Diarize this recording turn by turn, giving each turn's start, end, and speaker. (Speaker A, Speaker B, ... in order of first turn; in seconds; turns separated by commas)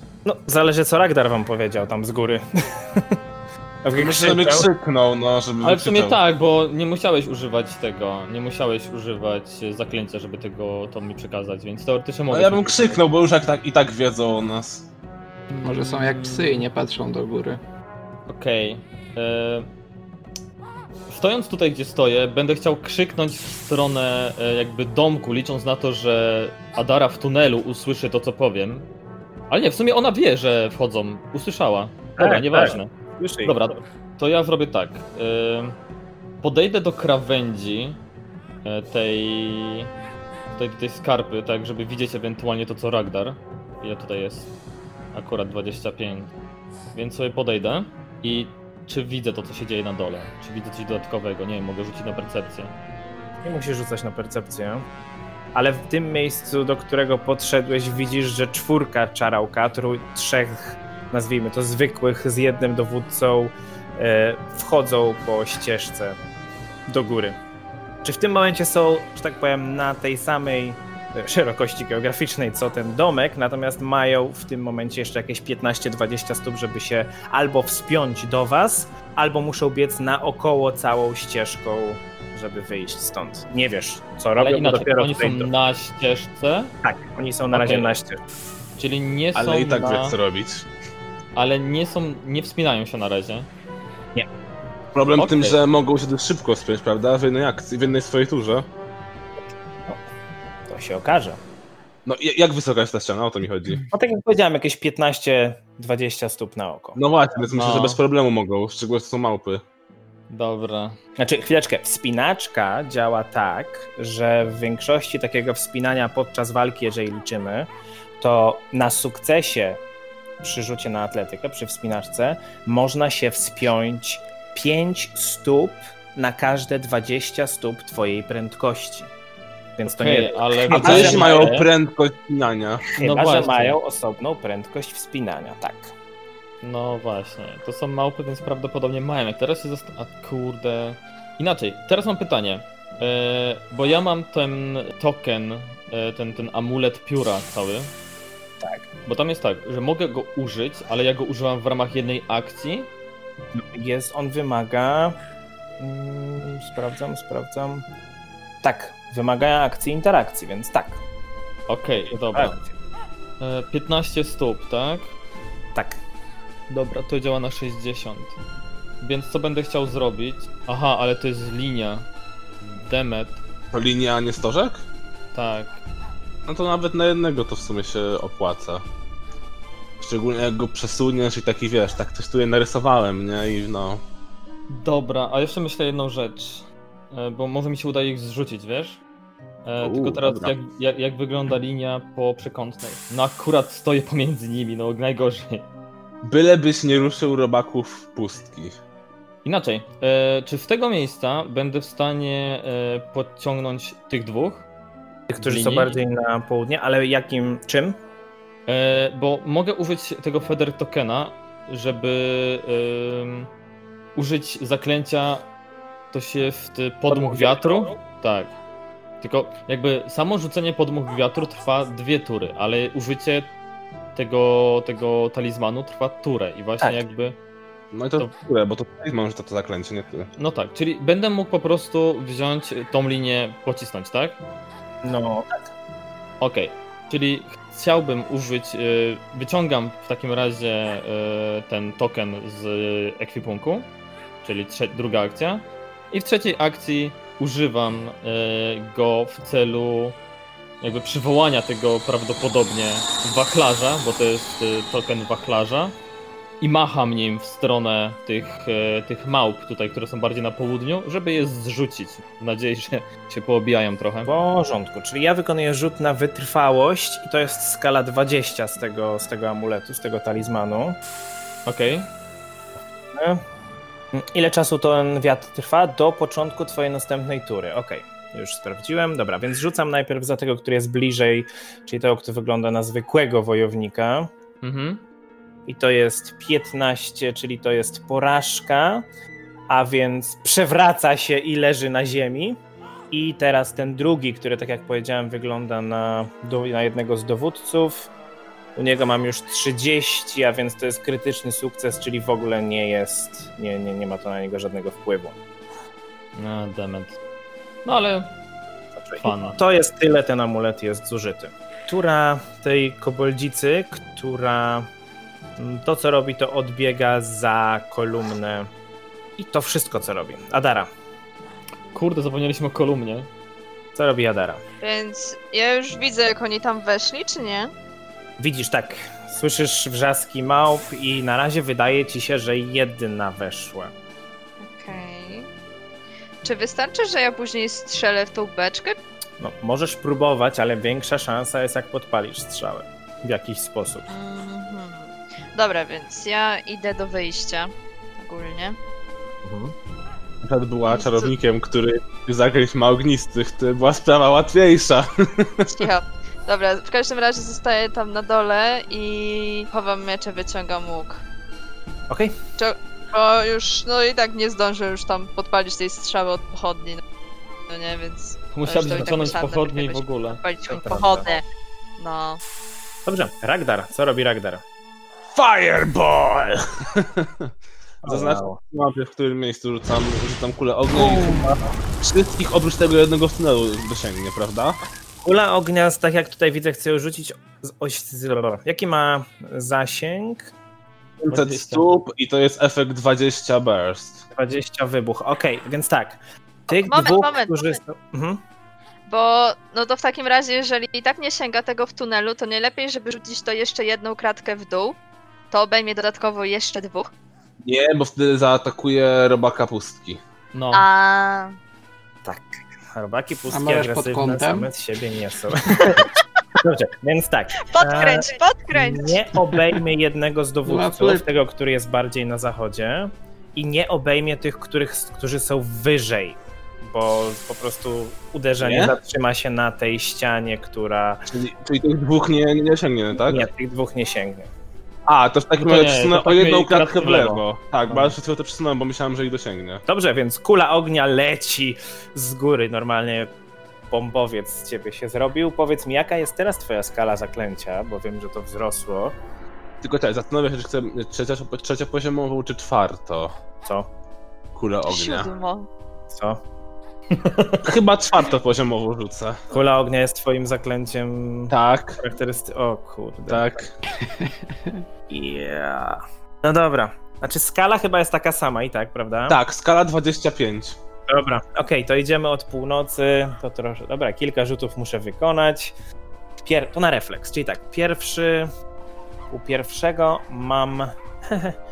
Speaker A: 0.2-3.2, Speaker A: 3.8-4.7, Speaker B: 4.0-6.2, Speaker C: 5.6-13.0, Speaker B: 12.3-14.9, Speaker C: 15.5-16.7, Speaker D: 15.6-17.6, Speaker C: 18.3-19.7, Speaker C: 21.1-28.9, Speaker C: 29.5-32.9, Speaker A: 32.2-33.6, Speaker C: 33.4-35.8, Speaker C: 36.4-38.0, Speaker C: 38.6-39.9, Speaker C: 40.5-44.5, Speaker C: 45.1-46.3, Speaker C: 46.9-52.7, Speaker A: 53.4-54.9, Speaker A: 55.5-66.2, Speaker A: 66.9-67.4, Speaker A: 68.0-85.5, Speaker C: 84.4-86.7, Speaker A: 86.8-88.2, Speaker C: 87.5-88.0, Speaker C: 88.8-90.2, Speaker B: 89.3-90.7, Speaker C: 91.3-93.5, Speaker B: 94.9-98.7, Speaker C: 95.2-95.6, Speaker A: 100.7-101.4, Speaker B: 102.0-103.8, Speaker A: 103.9-107.0, Speaker B: 107.0-109.6, Speaker C: 107.5-108.0, Speaker C: 110.3-111.0, Speaker A: 111.2-119.8, Speaker A: 120.4-129.1, Speaker A: 129.8-131.5, Speaker C: 129.8-131.7, Speaker B: 130.7-132.8, Speaker A: 133.0-135.9, Speaker C: 133.0-133.8, Speaker C: 136.6-147.9, Speaker C: 149.1-152.9, Speaker A: 153.5-155.2, Speaker A: 155.8-157.9, Speaker A: 158.6-161.0, Speaker C: 161.7-162.6, Speaker A: 162.1-162.7, Speaker C: 163.4-165.1, Speaker A: 165.8-166.0, Speaker C: 166.7-168.4, Speaker C: 169.0-172.1, Speaker C: 172.6-173.4, Speaker B: 173.7-174.8, Speaker C: 175.3-175.8, Speaker B: 176.5-178.8, Speaker B: 180.0-184.0, Speaker C: 184.7-189.0, Speaker C: 189.7-195.7, Speaker B: 189.8-190.6, Speaker B: 196.2-198.8, Speaker C: 199.4-204.7, Speaker A: 205.3-208.0, Speaker C: 205.4-206.0, Speaker C: 208.7-213.5, Speaker C: 214.2-215.5, Speaker C: 216.1-218.5, Speaker A: 217.1-217.9, Speaker C: 219.2-223.5, Speaker C: 224.2-227.4, Speaker A: 226.8-227.1, Speaker B: 227.9-230.3, Speaker C: 230.4-234.4, Speaker A: 235.0-235.6, Speaker C: 236.4-243.9, Speaker C: 244.4-250.2, Speaker C: 250.8-256.0, Speaker C: 256.6-264.3, Speaker A: 264.3-271.0, Speaker C: 271.7-272.1, Speaker A: 273.1-273.4, Speaker A: 274.1-284.3, Speaker C: 284.6-285.0, Speaker A: 285.7-289.1, Speaker A: 289.7-292.6, Speaker A: 293.1-298.1, Speaker A: 298.8-305.4, Speaker C: 306.4-307.2, Speaker C: 307.9-308.3, Speaker A: 309.0-314.9, Speaker C: 309.2-309.6, Speaker A: 315.6-318.7, Speaker A: 319.4-320.9, Speaker C: 321.9-323.3, Speaker A: 323.9-324.6, Speaker E: 324.8-327.7, Speaker A: 328.4-333.9, Speaker E: 334.6-335.5, Speaker E: 336.4-339.0, Speaker A: 339.4-344.1, Speaker E: 344.1-348.8, Speaker A: 349.4-349.7, Speaker B: 350.4-355.9, Speaker E: 350.9-351.3, Speaker E: 355.7-361.2, Speaker A: 362.1-362.4, Speaker E: 362.6-367.0, Speaker E: 367.7-371.4, Speaker C: 368.5-370.4, Speaker A: 370.7-371.4, Speaker E: 372.0-372.4, Speaker A: 373.1-374.6, Speaker B: 375.3-377.5, Speaker A: 378.1-378.6, Speaker B: 378.1-384.8, Speaker A: 380.9-381.6, Speaker A: 385.2-390.5, Speaker B: 391.2-394.2, Speaker C: 391.3-391.9, Speaker A: 394.3-398.4, Speaker E: 396.7-397.8, Speaker E: 399.1-405.0, Speaker E: 405.5-407.1, Speaker B: 407.6-410.2, Speaker C: 410.5-410.8, Speaker E: 410.7-411.6, Speaker A: 412.2-431.3, Speaker D: 413.5-414.7, Speaker E: 417.6-419.2, Speaker D: 420.7-421.2, Speaker B: 428.6-428.9, Speaker B: 431.3-433.5, Speaker A: 433.1-434.5, Speaker B: 435.1-439.8, Speaker C: 435.6-437.4, Speaker A: 439.9-443.3, Speaker A: 443.9-449.2, Speaker B: 449.8-453.3, Speaker B: 454.6-455.3, Speaker E: 454.9-455.7, Speaker A: 456.1-456.4, Speaker C: 457.1-457.6, Speaker B: 457.6-459.4, Speaker A: 459.5-463.7, Speaker B: 461.5-462.0, Speaker B: 463.3-463.7, Speaker D: 464.0-464.8, Speaker A: 465.1-469.4, Speaker B: 469.3-470.8, Speaker A: 471.1-475.8, Speaker A: 476.4-478.5, Speaker A: 479.3-481.6